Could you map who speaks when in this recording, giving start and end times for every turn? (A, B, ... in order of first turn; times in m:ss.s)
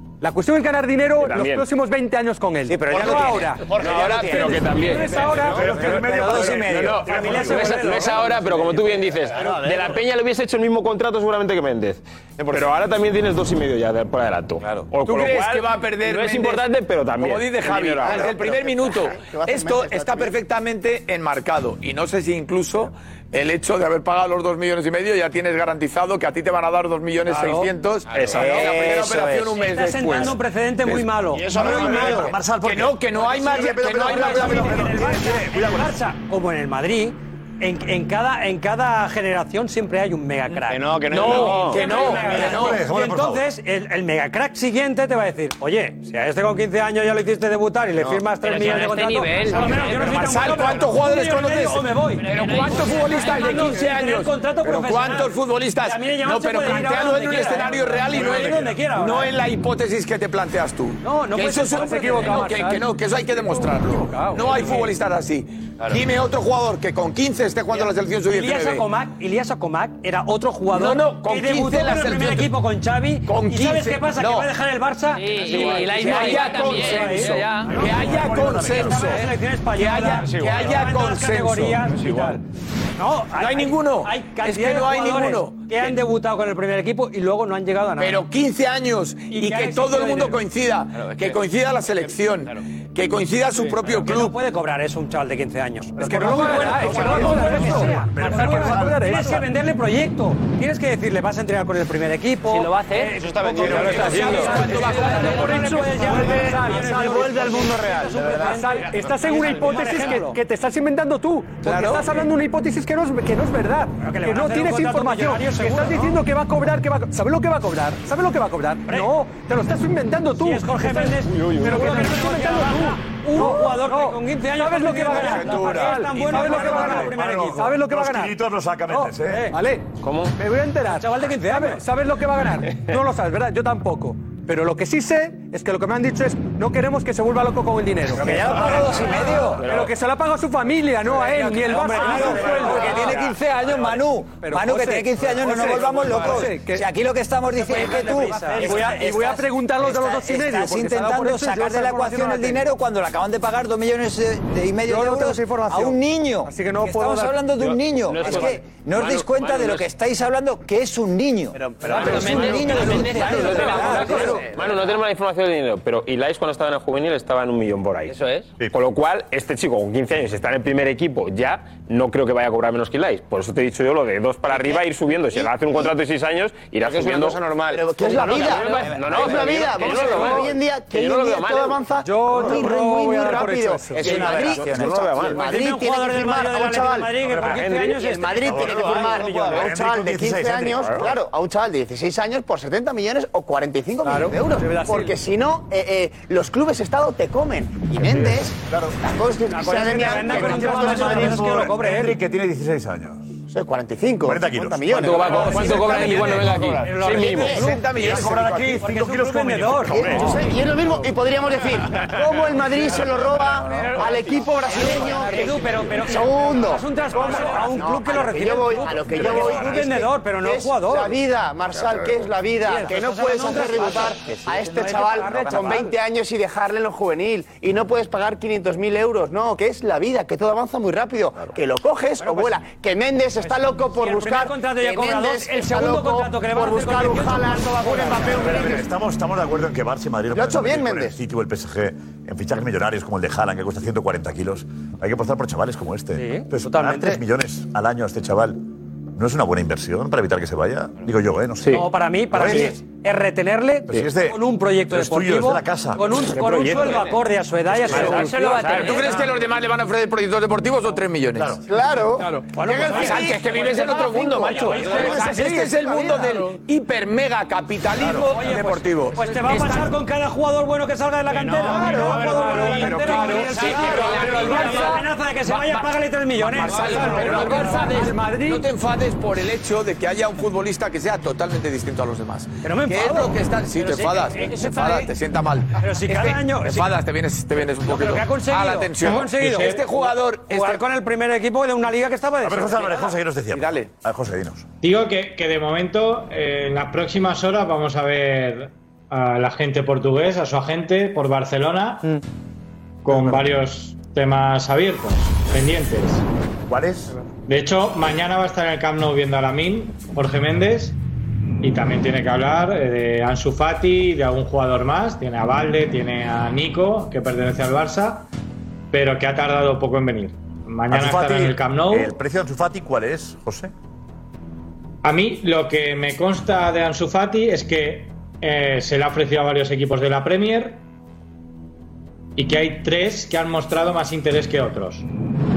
0:00.2-0:03.6 A
0:01.2-0:01.7 B
0:02.7-0:04.6 C
0:03.6-0:06.0 D
0:03.8-0:05.6 B
0:04.3-0:06.5 A
0:05.4-0:07.6 E
0:05.9-0:07.4 C
0:06.5-0:18.4 B
0:07.1-0:08.4 F
0:09.3-0:10.0 E
0:12.4-0:12.7 D
0:15.1-0:31.2 G
0:18.0-0:20.2 D
0:18.1-0:18.5 H
0:19.2-0:20.3 H
0:27.3-0:27.7 F
0:28.1-0:28.6 D
0:28.3-0:29.5 C
0:29.5-0:32.3 F
0:31.3-0:33.4 D
0:31.5-0:36.0 E
0:31.7-0:35.0 G
0:34.0-0:59.3 F
0:40.5-0:42.5 D
0:41.1-0:42.8 G
0:42.1-0:43.5 E
0:48.0-0:48.3 D
0:48.4-0:50.4 I
0:49.6-1:08.9 G
0:52.2-0:53.2 I
0:58.2-0:58.6 E
1:01.0-1:02.6 F
1:01.8-1:02.9 A
1:03.4-1:04.8 A
1:04.6-1:04.8 F
1:07.8-1:17.9 F
1:10.7-1:12.6 G
1:13.2-1:14.5 G
1:15.2-1:17.8 I
1:15.5-1:15.9 D
1:15.5-1:21.9 G
1:17.7-1:19.2 E
1:18.8-1:22.4 F
1:20.1-1:20.9 D
1:21.9-1:22.4 D
1:23.0-1:28.3 F
1:23.3-1:26.0 G
1:28.0-1:34.4 G
1:29.3-1:30.4 F
1:30.9-1:32.6 D
1:33.8-1:50.4 F
1:36.0-1:39.4 A
1:36.3-1:39.4 E
1:42.5-1:43.2 I
1:43.2-1:45.2 D
1:43.6-1:46.2 G
1:43.7-1:44.3 I
1:44.1-1:44.4 B
1:44.7-2:08.4 A
1:46.3-1:48.4 D
1:51.6-1:52.2 G
1:54.0-1:56.2 F
1:58.9-1:59.2 F
2:00.4-2:07.7 F
2:01.3-2:02.0 B
2:05.0-2:07.1 G
2:06.4-2:09.5 E
2:08.9-2:23.2 A
2:09.3-2:09.6 F
2:10.0-2:10.4 B
2:10.9-2:11.8 F
2:18.1-2:19.6 C
2:18.2-2:19.9 B
2:18.4-2:19.0 E
2:21.3-2:23.1 F
2:21.7-2:44.3 C
2:24.4-2:26.9 A
2:27.6-2:29.0 F
2:27.8-2:32.6 A
2:34.8-2:37.7 A
2:37.6-2:39.9 B
2:38.2-2:38.5 A
2:41.9-2:44.2 F
2:42.0-2:44.4 I
2:42.0-2:48.2 B
2:43.9-2:44.2 A
2:48.1-2:48.5 I
2:48.7-2:57.4 B
2:56.8-2:58.8 D
2:57.7-3:07.1 H
2:58.0-3:01.9 B
2:58.2-3:00.0 C
3:02.0-3:04.2 A
3:02.5-3:02.7 B
3:04.0-3:05.4 C
3:04.0-3:05.6 B
3:05.3-3:08.6 F
3:07.2-3:07.7 E
3:07.4-3:08.1 B
3:08.0-3:21.6 H
3:08.3-3:11.1 E
3:08.7-3:09.7 B
3:10.8-3:11.1 B
3:14.0-3:15.2 A
3:18.7-3:19.0 E
3:19.5-3:22.2 F
3:20.2-3:23.3 E
3:23.5-3:26.2 H
3:24.2-3:25.4 E
3:24.9-3:27.6 B
3:25.4-3:26.8 D
3:25.4-3:27.9 F
3:27.2-3:27.7 H
3:27.7-3:28.1 G
3:27.8-3:30.4 E
3:28.7-3:30.1 F
3:29.9-3:58.9 H
3:34.7-3:41.2 F
3:39.1-3:39.8 E
3:42.6-3:46.0 F
3:44.1-3:45.9 C
3:52.2-3:52.6 F
3:53.4-3:58.8 F
3:58.3-4:08.6 E
4:00.3-4:01.2 H
4:06.2-4:07.2 F
4:09.2-4:12.8 E
4:11.7-4:19.3 F
4:13.9-4:16.1 E
4:16.3-4:17.1 B
4:17.9-4:21.6 G
4:17.9-4:19.0 B
4:21.4-4:21.6 E
4:21.7-4:22.4 H
4:22.5-4:25.4 F
4:22.7-4:29.9 G
4:23.0-4:23.7 D
4:24.0-4:24.5 H
4:24.4-4:25.2 D
4:25.2-4:26.2 H
4:28.0-4:28.3 E
4:28.2-4:38.5 F
4:31.6-4:50.8 G
4:36.9-4:38.6 A
4:42.6-4:45.1 F
4:45.8-4:47.0 F
4:47.8-4:53.2 F
4:49.5-4:49.8 J
4:52.4-4:54.7 E
4:54.8-5:02.2 J
5:03.0-5:06.2 J
5:06.7-5:07.2 E
5:07.5-5:11.0 J
5:11.6-5:18.3 J
5:18.9-5:22.2 J
5:20.9-5:23.7 E
5:25.0-5:30.8 J
5:32.4-5:35.1 J